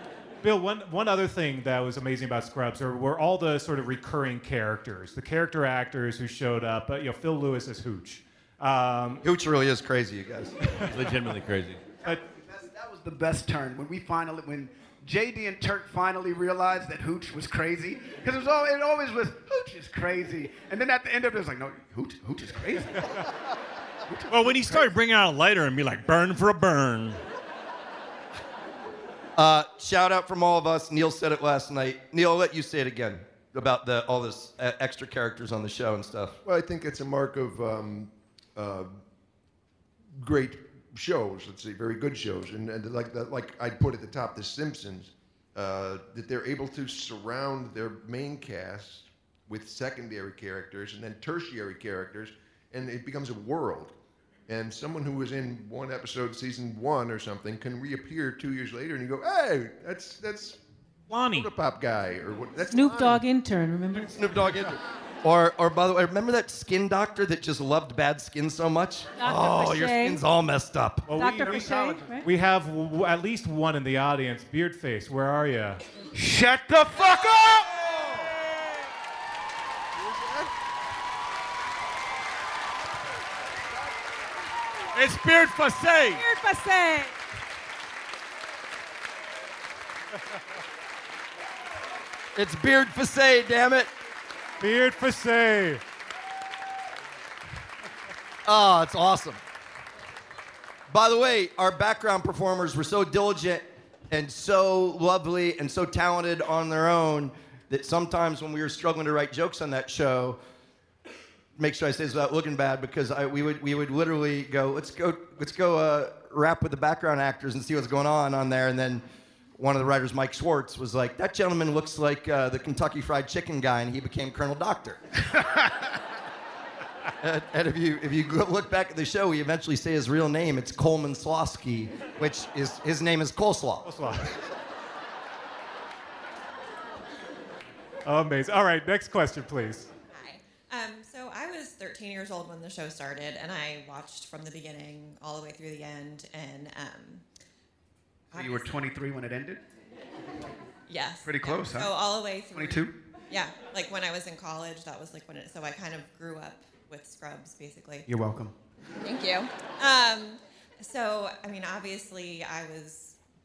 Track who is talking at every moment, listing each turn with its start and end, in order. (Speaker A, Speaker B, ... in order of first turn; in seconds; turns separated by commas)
Speaker A: 0.4-9.2, Speaker B: 9.2-10.6, Speaker C: 10.8-11.8, Speaker D: 12.1-23.3, Speaker D: 24.1-24.9, Speaker C: 24.3-27.2, Speaker B: 29.4-36.4, Speaker E: 36.4-38.9, Speaker E: 40.2-53.9, Speaker E: 54.5-60.6, Speaker C: 61.1-61.5, Speaker E: 61.3-63.3, Speaker F: 62.7-64.5, Speaker B: 64.1-71.1, Speaker F: 69.2-70.2, Speaker A: 71.1-75.8, Speaker F: 71.1-72.3, Speaker D: 76.1-77.8, Speaker E: 80.0-80.4, Speaker C: 84.9-86.2, Speaker F: 86.1-87.1, Speaker B: 92.3-93.9, Speaker A: 94.6-95.8, Speaker B: 98.5-99.4, Speaker B: 100.9-110.4, Speaker B: 111.6-119.0, Speaker B: 119.6-125.0, Speaker B: 127.2-133.9, Speaker A: 133.9-134.3, Speaker A: 138.1-139.9, Speaker G: 140.1-147.2, Speaker G: 148.3-148.8, Speaker D: 148.3-149.6, Speaker G: 150.9-158.1, Speaker D: 151.2-151.9, Speaker D: 152.5-153.0, Speaker D: 158.1-158.5, Speaker G: 159.0-163.2